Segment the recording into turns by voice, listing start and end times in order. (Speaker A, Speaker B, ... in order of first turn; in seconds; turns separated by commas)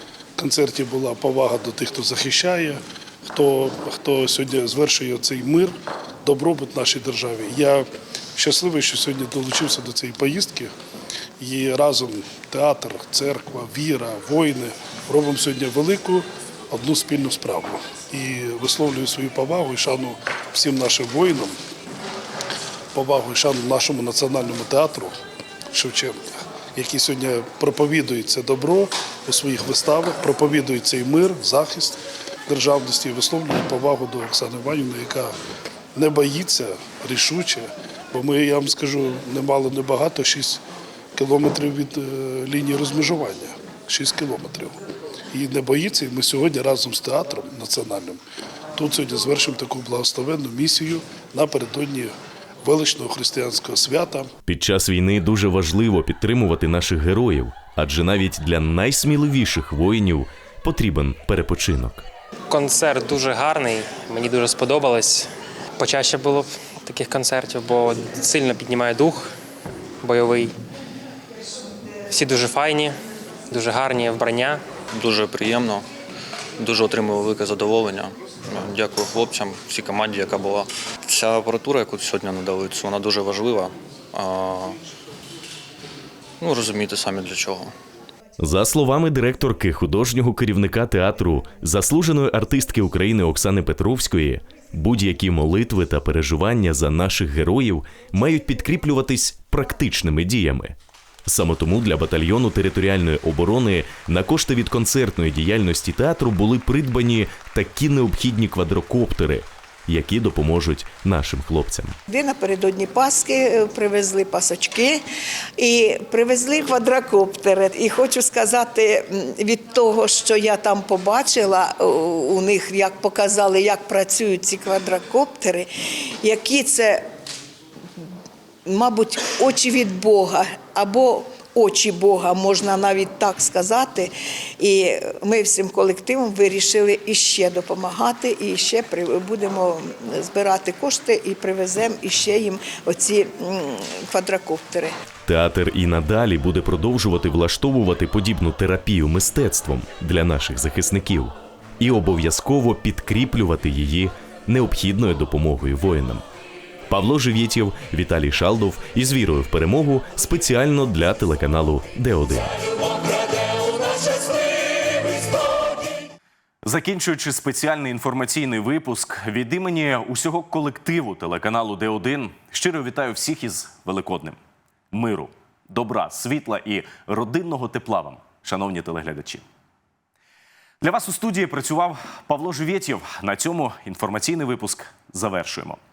Speaker A: 0.4-10.7, Speaker A: 11.4-21.6, Speaker A: 22.9-25.2, Speaker A: 25.7-35.3, Speaker A: 36.0-40.6, Speaker A: 41.1-44.8, Speaker A: 45.3-48.2, Speaker A: 48.7-54.3, Speaker B: 54.5-62.0, Speaker C: 62.5-69.3, Speaker C: 70.0-70.5, Speaker C: 72.1-73.0, Speaker C: 73.5-74.6, Speaker D: 74.9-75.8, Speaker D: 76.6-84.8, Speaker D: 86.4-87.7, Speaker B: 88.4-112.0, Speaker E: 112.1-115.0, Speaker E: 115.6-127.1, Speaker E: 128.7-144.9, Speaker B: 145.2-156.2, Speaker B: 156.9-162.5, Speaker F: 166.6-174.4, Speaker F: 174.9-179.4, Speaker F: 180.8-185.8